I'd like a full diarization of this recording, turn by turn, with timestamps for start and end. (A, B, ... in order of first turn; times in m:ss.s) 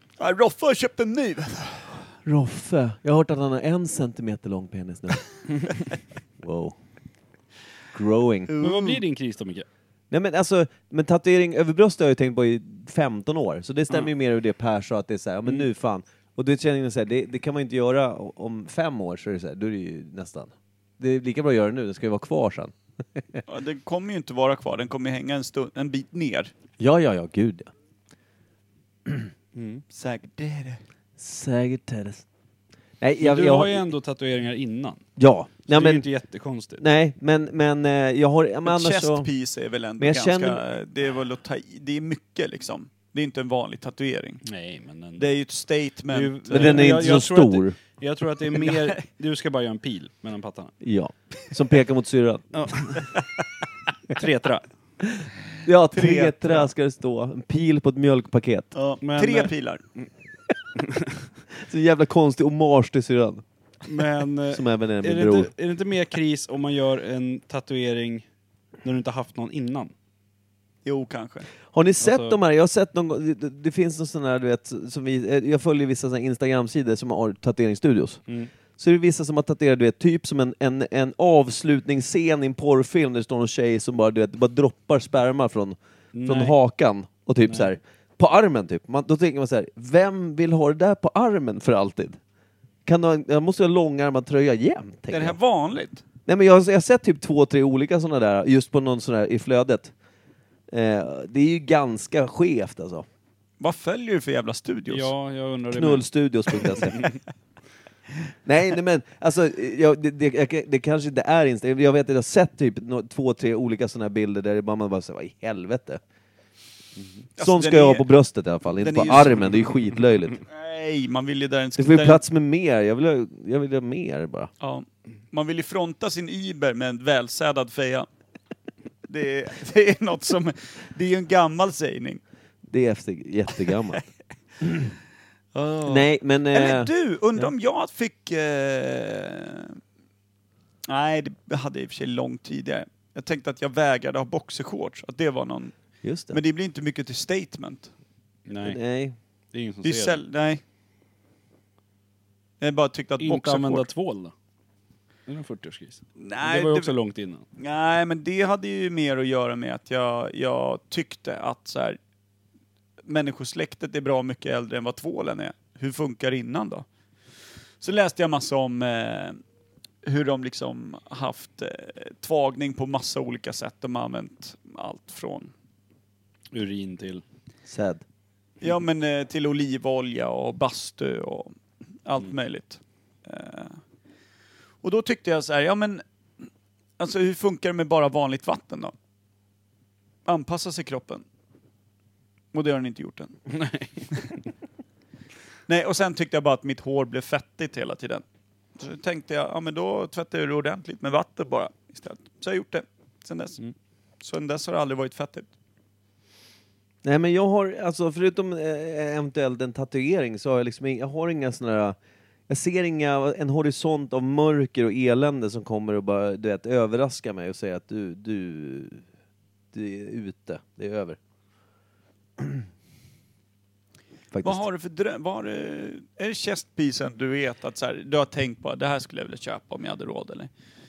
0:00.2-0:01.9 A
0:02.2-0:05.2 B
0:06.4-0:06.8 B
0:07.9-0:08.5 B
0:08.5-0:09.0 A
0:08.6-0:09.6 C
0:10.1-0:23.4 B
0:23.5-0:26.5 A
0:26.8-0:27.7 B
0:29.5-0:29.8 C
0:29.9-0:30.8 A
0:31.2-0:32.2 B
0:33.0-0:33.8 B
0:33.2-0:35.0 C
0:35.2-0:36.0 B
0:35.7-0:36.8 C
0:36.8-0:39.3 B
0:38.6-0:44.4 A
0:40.0-0:40.6 B
0:44.4-0:45.3 C
0:45.2-0:47.0 A
0:46.1-0:50.7 C
0:46.5-0:47.8 B
0:48.6-0:48.9 A
0:50.8-0:52.4 B
0:52.5-0:53.1 C
0:54.1-0:54.6 C
0:55.6-0:58.7 B
0:55.9-0:56.6 A
0:58.7-0:59.8 A
0:59.0-1:00.1 C
1:00.8-1:01.1 C
1:01.6-1:03.4 B
1:03.8-1:08.2 C
1:04.5-1:05.5 B
1:08.8-1:09.9 C
1:10.8-1:11.5 A
1:11.7-1:18.2 B
1:12.0-1:12.4 C
1:18.8-1:32.2 B
1:26.1-1:26.5 C
1:32.8-1:35.4 B
1:35.1-1:36.0 A
1:36.2-1:39.9 B
1:40.7-1:43.0 B
1:43.6-1:45.1 A
1:44.9-1:46.0 C
1:45.7-1:47.0 B
1:48.4-1:56.0 B
1:57.4-1:58.0 A
1:57.4-2:00.4 B
1:58.8-1:59.4 A
2:00.5-2:02.2 A
2:01.8-2:04.5 B
2:04.6-2:08.1 A
2:09.1-2:12.2 A
2:12.7-2:14.0 B
2:14.6-2:14.9 B
2:15.5-2:19.8 A
2:15.8-2:17.5 B
2:20.9-2:25.7 A
2:26.0-2:26.4 B
2:26.3-2:27.9 A
2:28.5-2:28.8 C
2:28.6-2:29.2 B
2:29.5-2:30.2 C
2:29.8-2:30.6 A
2:32.6-2:33.9 A
2:33.2-2:34.3 C
2:35.2-2:37.4 C
2:36.2-2:36.9 A
2:37.6-2:42.0 A
2:43.0-2:46.8 A
2:47.8-2:49.4 A
2:50.0-2:55.5 A
2:56.5-2:57.2 C
2:57.7-2:58.0 B
2:58.6-3:03.8 A
3:04.8-3:06.0 A
3:07.0-3:08.9 A
3:10.2-3:11.2 A
3:12.5-3:13.3 A
3:13.5-3:14.1 C
3:15.7-3:18.2 A
3:18.8-3:23.6 A
3:24.2-3:25.5 A
3:27.0-3:32.0 B
3:32.5-3:39.0 B
3:39.7-3:41.2 B
3:44.3-3:44.6 B
3:44.4-3:50.5 A